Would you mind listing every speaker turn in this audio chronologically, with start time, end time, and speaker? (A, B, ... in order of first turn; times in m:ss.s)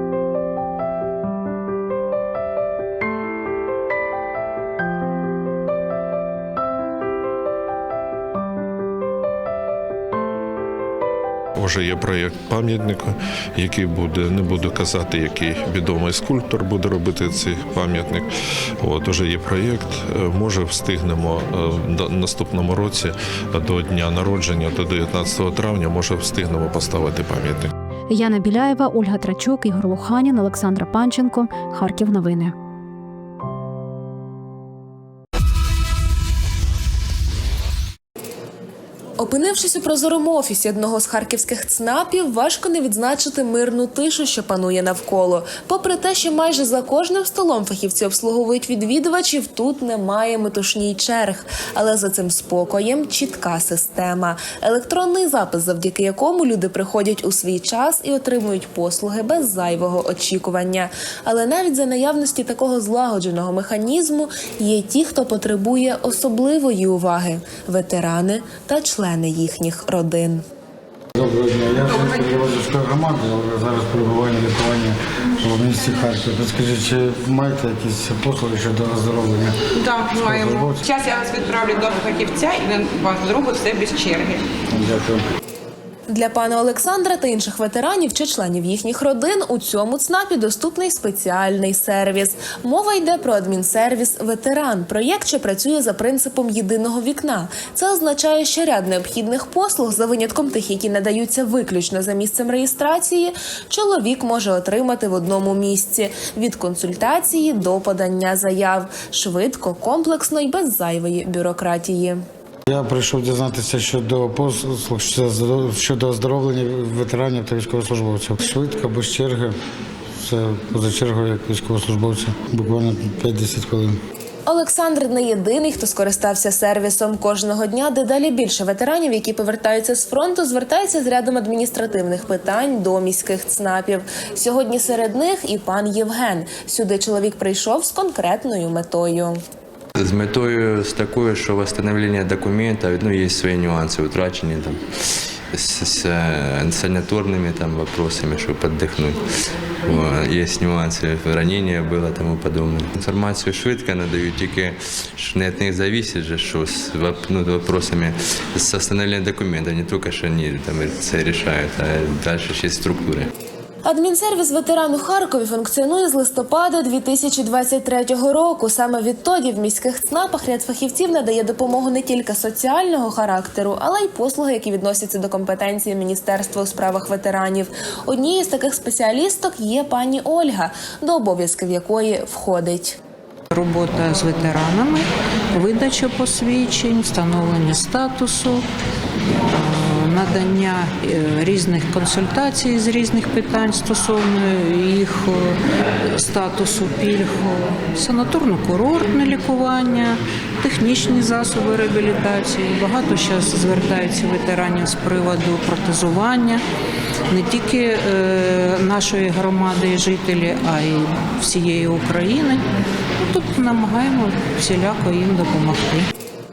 0:11.6-0:18.3 A
0:18.8-0:27.7 A
0:28.1-0:32.5 B
0:39.2-1:10.4 C
1:11.2-1:19.6 D
1:19.7-1:24.4 E
1:20.2-1:20.8 D
1:24.7-1:25.2 D
1:26.1-1:52.2 C
1:52.7-1:59.6 D
2:00.2-2:04.0 D
2:04.5-2:19.4 C
2:20.0-2:24.8 F
2:25.5-2:29.2 F
2:29.8-2:43.3 F
2:43.8-3:03.0 C
3:03.5-3:05.0 G
3:05.5-3:08.6 G
3:09.6-3:15.3 G
3:16.1-3:26.6 G
3:27.3-3:32.6 G
3:33.2-3:36.1 G